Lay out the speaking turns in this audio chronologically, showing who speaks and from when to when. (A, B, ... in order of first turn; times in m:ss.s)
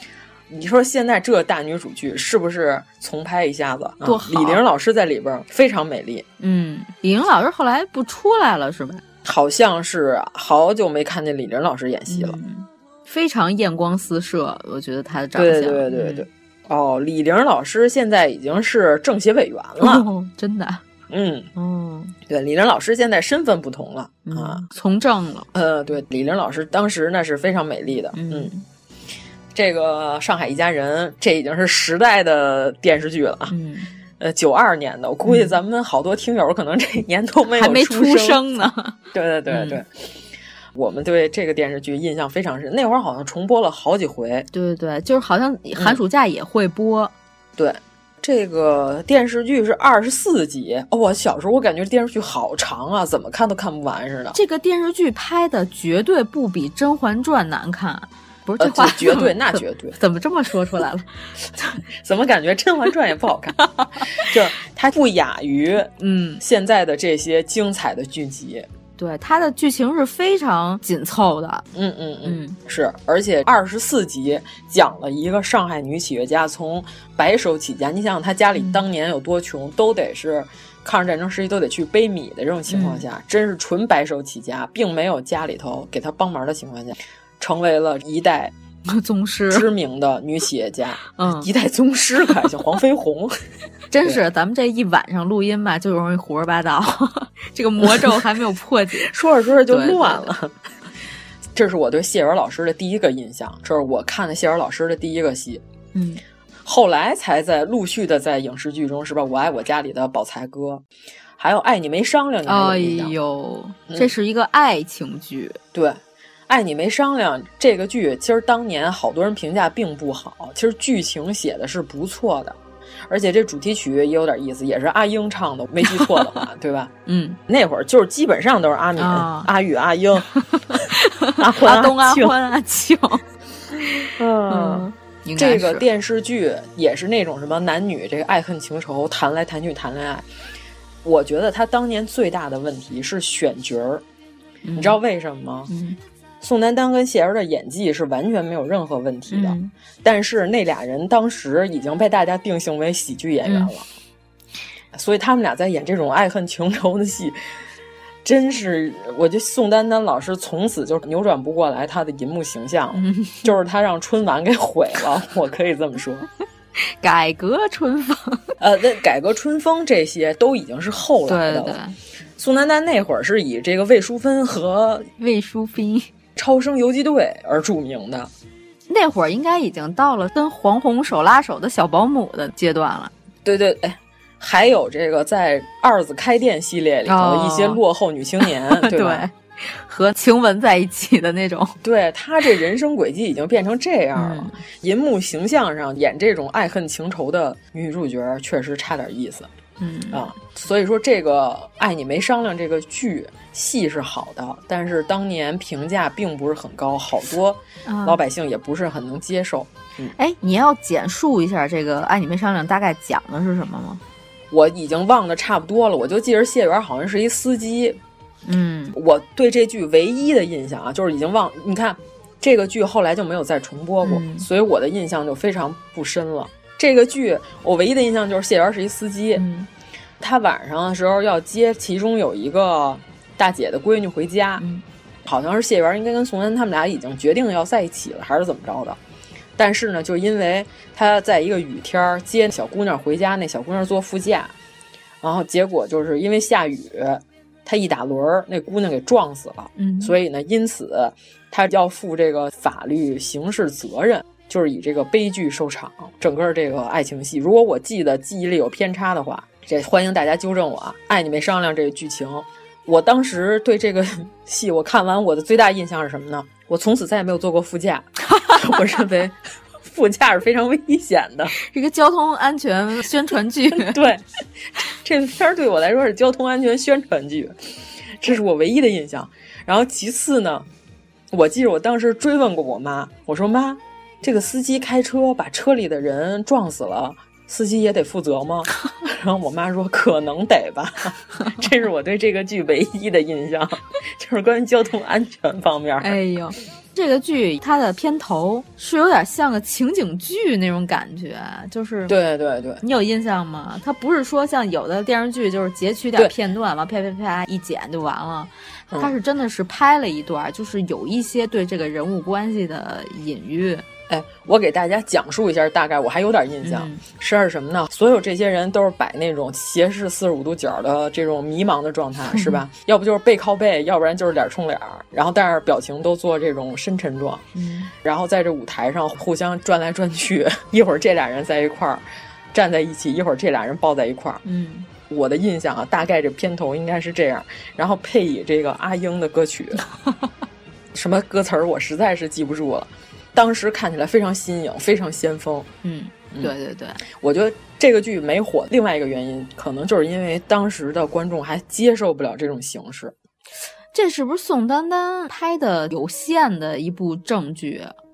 0:00.5-0:06.2 A
0:04.0-0:04.6 B
0:06.4-0:09.0 B
0:09.2-0:12.4 A
0:12.1-0:16.2 B
0:15.3-0:20.0 A
0:19.8-0:20.8 B
0:21.1-0:21.5 A
0:21.6-0:22.1 B
0:22.2-0:24.6 A
0:24.3-0:25.5 B
0:25.5-0:28.5 A
0:28.1-0:28.6 B
0:29.5-0:33.5 A
0:33.5-0:33.9 B
0:34.2-0:38.4 A
0:35.2-0:35.5 B
0:37.6-0:39.8 B
0:39.1-0:39.9 A
0:40.7-0:44.5 A
0:44.5-0:47.1 B
0:47.6-0:54.4 A
0:54.3-1:01.0 B
0:58.6-1:00.0 A
1:02.0-1:03.6 A
1:03.8-1:04.0 B
1:04.2-1:08.7 A
1:06.0-1:06.4 B
1:09.0-1:11.6 B
1:11.7-1:28.5 A
1:12.2-1:12.6 B
1:18.5-1:18.8 B
1:22.7-1:23.0 B
1:28.9-1:29.7 B
1:29.5-1:33.4 A
1:31.2-1:31.5 B
1:33.9-1:39.1 B
1:37.8-1:38.2 A
1:39.0-1:40.5 A
1:39.7-1:40.3 B
1:41.5-1:45.6 A
1:45.9-1:46.2 B
1:46.6-1:50.8 A
1:51.4-1:53.1 A
1:52.4-1:55.6 B
1:55.7-2:02.6 A
2:03.1-2:06.9 A
2:05.8-2:06.1 B
2:07.0-2:07.4 B
2:07.5-2:10.2 A
2:09.0-2:09.5 B
2:10.3-2:13.2 B
2:11.4-2:12.3 A
2:14.2-2:20.2 A
2:14.5-2:15.8 B
2:21.0-2:24.0 A
2:24.6-2:25.0 B
2:24.8-2:25.7 A
2:25.7-2:26.0 B
2:26.4-2:33.9 A
2:29.3-2:29.7 B
2:33.4-2:33.7 B
2:34.9-2:37.4 A
2:38.2-2:46.3 A
2:42.9-2:43.5 B
2:47.0-2:48.5 B
2:48.6-2:51.8 A
2:51.3-2:52.0 B
2:52.4-2:55.1 A
2:55.2-2:56.1 B
2:56.4-2:58.3 A
2:58.9-3:03.1 B
3:03.4-3:09.2 A
3:07.0-3:07.8 B
3:08.4-3:11.8 B
3:11.8-3:19.5 A
3:14.2-3:14.6 B
3:19.8-3:20.2 B
3:20.1-3:30.1 A
3:27.8-3:28.2 B
3:30.2-3:34.0 B
3:34.5-3:38.0 A
3:38.4-3:39.0 B
3:38.9-3:49.4 A
3:44.0-3:44.5 B
3:49.4-3:49.7 B
3:50.2-3:54.6 A
3:55.2-3:59.0 A
3:59.6-4:04.5 A
4:05.2-4:31.5 A
4:09.8-4:10.2 B
4:31.6-4:34.0 B
4:33.8-4:34.2 A
4:35.0-4:37.5 A
4:38.2-4:40.7 A
4:41.3-4:56.2 A
4:56.0-5:02.1 B
5:02.1-5:02.8 A
5:02.8-5:13.8 B
5:14.1-5:27.4 A
5:16.6-5:17.0 B
5:22.3-5:22.6 B
5:27.5-5:27.9 B
5:28.0-5:34.4 A
5:34.4-5:34.9 B
5:35.1-5:39.8 A
5:40.9-5:45.7 A
5:45.8-5:47.0 B
5:47.1-5:53.1 A
5:53.9-5:57.9 B